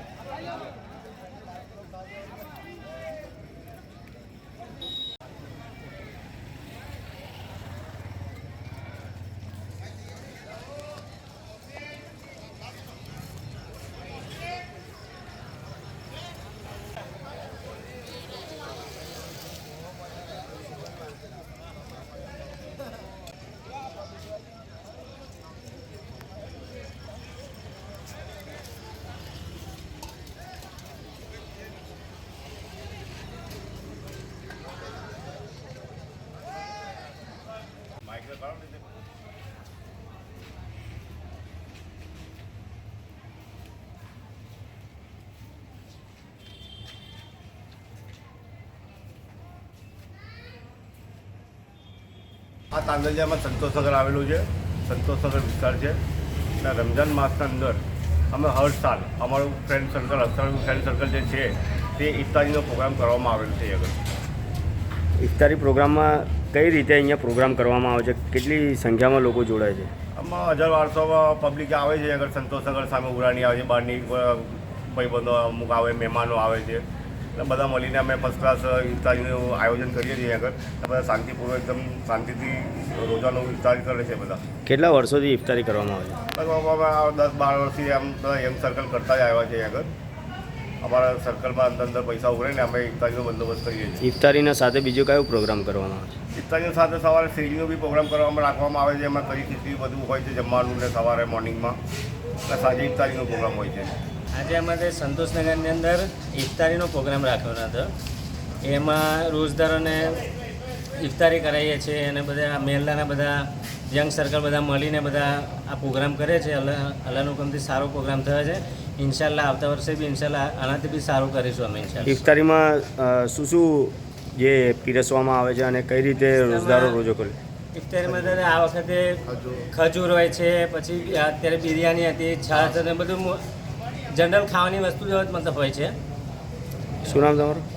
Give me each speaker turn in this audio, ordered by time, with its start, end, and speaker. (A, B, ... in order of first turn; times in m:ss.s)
0:38.0-0:38.8 A
0:52.7-0:56.0 A
0:56.6-0:57.8 A
0:58.3-1:03.9 A
1:05.2-1:09.9 B
1:10.2-1:16.8 A
1:17.4-1:24.4 A
1:24.6-1:26.2 B
1:26.3-1:29.9 A
1:30.8-1:34.1 A
1:34.0-1:36.1 B
1:36.3-1:41.8 A
1:42.5-1:43.9 A
1:44.3-1:47.9 C
1:48.6-1:50.3 C
1:50.9-2:02.2 C
2:02.0-2:07.4 B
2:06.3-2:07.0 C
2:07.7-2:13.4 C
2:14.1-2:15.9 C
2:17.0-2:17.6 B